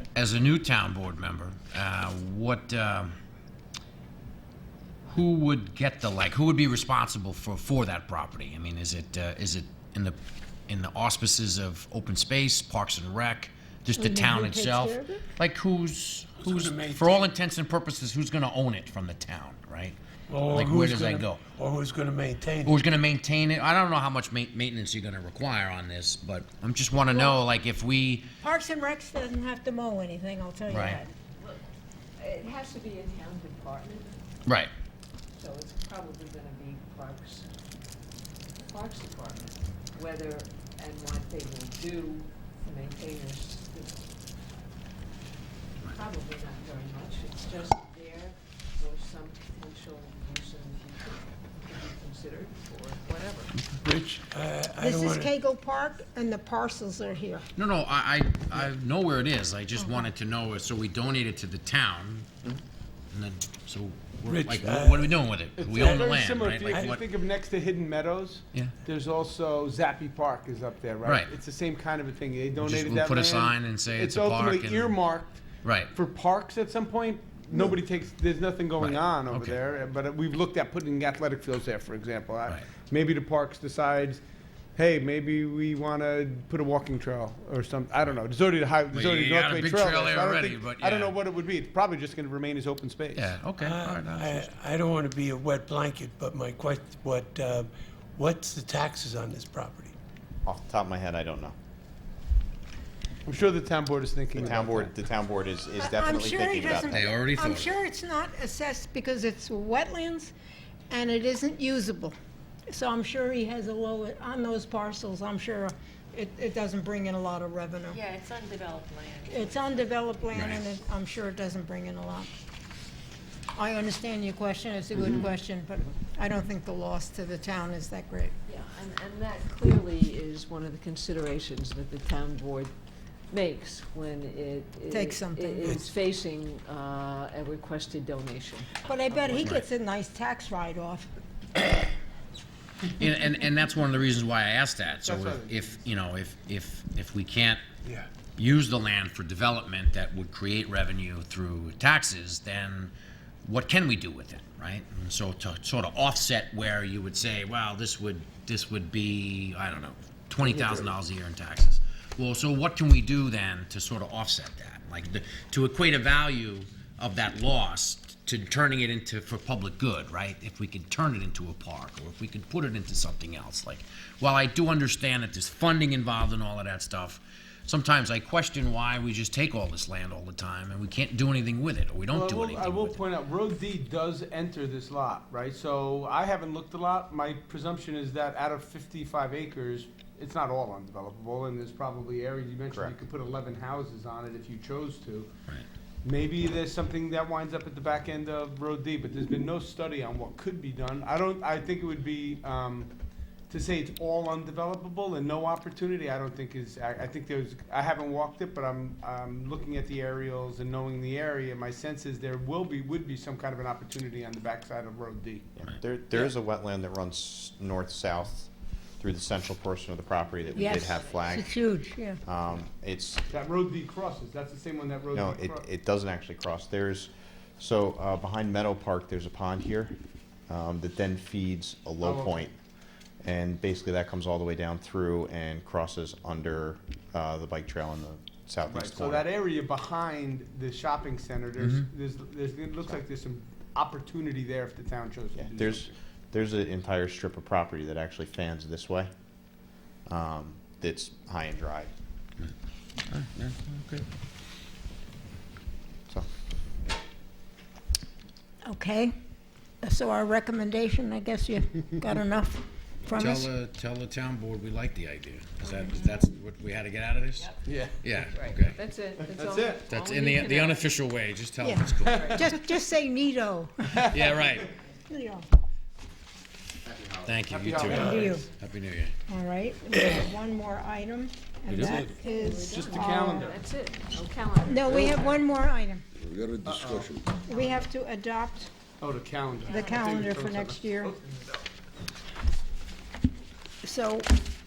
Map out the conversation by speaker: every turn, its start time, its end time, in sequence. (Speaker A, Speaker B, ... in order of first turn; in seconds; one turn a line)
Speaker A: 0.1-3.1
Speaker A: 5.1-10.2
Speaker A: 10.7-19.9
Speaker B: 13.9-15.2
Speaker C: 16.4-17.2
Speaker C: 20.3-22.8
Speaker A: 20.5-21.4
Speaker A: 22.6-28.3
Speaker B: 28.4-31.1
Speaker A: 30.7-31.0
Speaker D: 32.2-34.2
Speaker D: 35.3-37.5
Speaker D: 38.5-44.1
Speaker D: 45.9-53.5
Speaker C: 53.8-55.3
Speaker B: 54.8-57.4
Speaker A: 57.5-62.5
Speaker A: 63.1-67.0
Speaker C: 64.3-65.2
Speaker E: 65.6-75.4
Speaker C: 65.7-66.2
Speaker A: 71.0-71.3
Speaker A: 72.6-75.0
Speaker A: 75.6-75.9
Speaker E: 75.9-84.2
Speaker A: 78.8-79.5
Speaker E: 84.7-93.3
Speaker A: 88.9-91.1
Speaker A: 93.1-94.5
Speaker C: 93.6-99.9
Speaker F: 100.4-101.5
Speaker E: 103.2-104.9
Speaker F: 104.3-107.1
Speaker B: 105.8-110.3
Speaker A: 106.9-107.8
Speaker B: 110.9-112.1
Speaker B: 112.7-118.0
Speaker G: 117.9-119.8
Speaker B: 119.3-122.3
Speaker A: 120.3-120.6
Speaker B: 123.5-128.3
Speaker D: 128.4-132.7
Speaker D: 133.3-138.8
Speaker B: 134.9-135.9
Speaker B: 138.8-141.1
Speaker A: 143.0-147.6
Speaker E: 145.0-145.8
Speaker A: 148.3-152.9
Speaker A: 153.4-183.0
Speaker E: 182.1-195.3
Speaker E: 196.0-202.9
Speaker E: 203.5-215.4
Speaker F: 215.6-218.5
Speaker F: 219.0-221.6
Speaker G: 220.4-221.3
Speaker B: 220.6-222.2
Speaker F: 222.2-223.2
Speaker E: 223.3-225.6
Speaker F: 225.1-229.9
Speaker F: 230.5-232.5
Speaker E: 232.0-232.4
Speaker F: 233.2-239.2
Speaker E: 238.7-245.9
Speaker A: 241.6-241.9
Speaker F: 245.3-249.1
Speaker F: 250.1-251.9
Speaker A: 253.1-254.0
Speaker B: 258.6-259.1
Speaker B: 259.8-263.5
Speaker A: 263.1-268.8
Speaker G: 265.8-266.2
Speaker E: 267.6-268.0
Speaker D: 268.3-270.9
Speaker E: 269.2-269.8
Speaker A: 269.9-272.5
Speaker B: 271.6-273.9
Speaker D: 272.1-272.4
Speaker E: 273.9-274.6
Speaker A: 274.1-274.7
Speaker B: 275.1-275.4
Speaker F: 276.8-277.4
Speaker A: 277.2-279.1
Speaker E: 277.5-278.1
Speaker C: 277.8-278.4
Speaker B: 277.9-278.4
Speaker B: 279.3-283.4
Speaker C: 281.7-282.1
Speaker D: 281.8-285.4
Speaker E: 282.7-283.6
Speaker B: 284.6-286.0
Speaker E: 286.6-287.2
Speaker B: 287.4-288.7
Speaker E: 289.0-291.6
Speaker B: 289.7-291.1
Speaker B: 293.8-294.3